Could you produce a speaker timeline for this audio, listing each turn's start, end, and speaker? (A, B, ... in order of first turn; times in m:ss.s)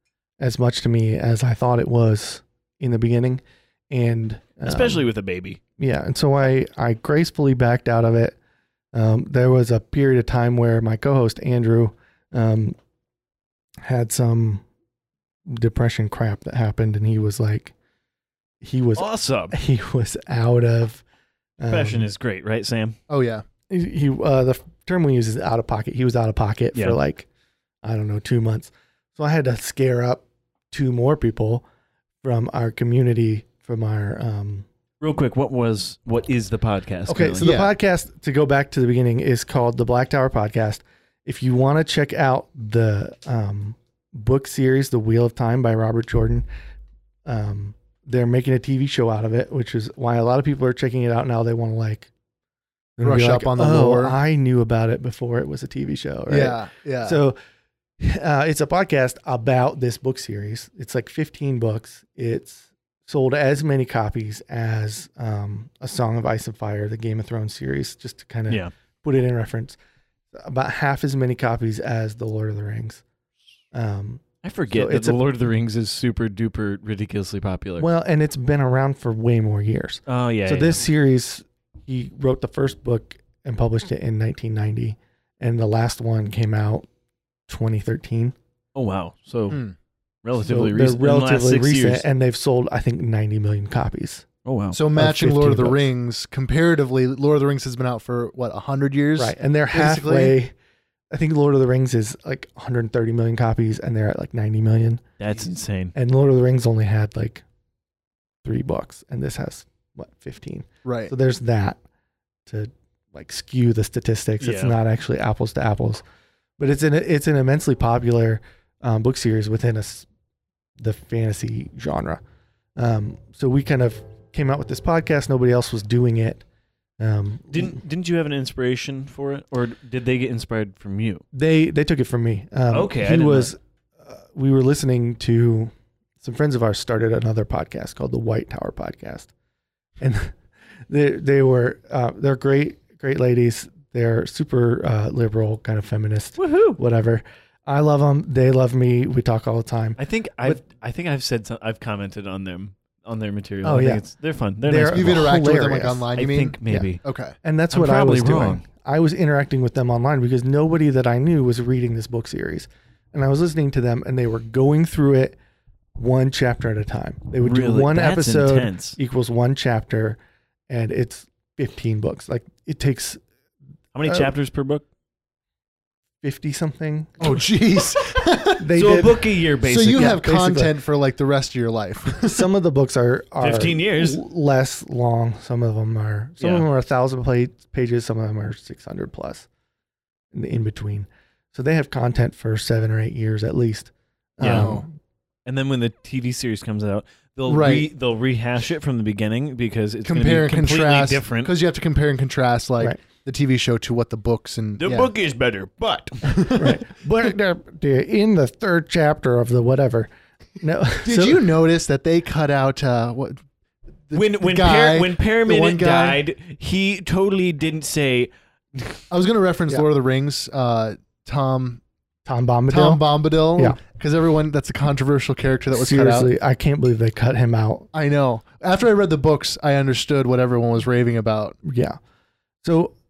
0:00.4-0:05.0 A
0:04.6-0:05.6 B
0:05.8-0:08.4 A
0:08.9-0:12.8 A
0:13.8-0:14.6 A
0:15.4-0:17.7 A
0:18.6-0:21.0 A
0:19.0-0:19.5 B
0:21.6-0:22.1 A
0:21.7-0:23.0 B
0:23.1-0:23.4 C
0:23.7-0:27.3 A
0:27.8-0:31.6 A
0:32.2-0:34.7 A
0:35.0-0:37.5 B
0:37.1-0:46.4 A
0:37.4-0:37.7 C
0:47.2-0:52.1 A
0:53.0-0:57.4 A
0:53.0-0:54.2 C
0:56.3-0:57.2 C
0:58.0-1:09.8 A
1:10.3-1:13.0 A
1:13.7-1:15.2 A
1:14.4-1:17.9 B
1:17.8-1:26.9 A
1:20.1-1:20.8 B
1:27.5-1:28.3 A
1:28.7-1:29.6 B
1:29.5-1:29.8 C
1:30.2-1:32.0 B
1:30.4-1:34.2 A
1:34.4-1:34.9 B
1:34.7-1:40.4 C
1:35.0-1:35.8 A
1:39.2-1:40.5 A
1:41.1-1:45.0 A
1:45.2-1:45.9 B
1:45.9-1:47.4 A
1:48.4-1:51.8 A
1:50.8-1:51.1 C
1:52.4-1:56.0 A
1:54.4-1:54.8 B
1:56.6-2:00.1 A
2:00.8-2:02.2 A
2:02.8-2:06.4 A
2:07.0-2:07.8 A
2:07.5-2:11.2 B
2:11.3-2:19.3 A
2:12.7-2:13.5 B
2:20.0-2:20.4 A
2:20.9-2:30.6 A
2:26.4-2:26.8 B
2:30.0-2:35.2 B
2:33.6-2:34.0 A
2:34.6-2:36.0 A
2:34.9-2:37.3 C
2:36.2-2:37.0 B
2:37.4-2:45.4 A
2:37.7-2:38.6 B
2:46.0-2:53.2 A
2:47.4-2:49.0 B
2:53.9-2:54.8 B
2:54.0-2:54.3 A
2:56.2-2:57.3 A
2:57.2-2:58.7 C
2:58.6-2:59.3 A
2:58.7-3:00.2 B
2:59.6-3:02.5 C
2:59.8-3:00.8 A
3:02.2-3:09.5 A
3:03.4-3:04.2 B
3:06.4-3:06.7 B
3:10.3-3:14.9 A
3:14.4-3:14.8 C
3:14.4-3:14.7 B
3:15.4-3:21.5 B
3:17.5-3:17.9 C
3:20.0-3:25.1 C
3:24.8-3:26.5 B
3:26.3-3:26.7 C
3:26.6-3:31.5 A
3:31.0-3:33.4 C
3:34.1-3:36.2 C
3:34.1-3:39.0 B
3:39.1-3:41.8 C
3:42.2-3:43.8 A
3:42.7-3:46.3 C
3:45.7-3:47.9 A
3:47.9-3:51.6 C
3:51.6-3:52.0 A
3:52.6-3:52.9 A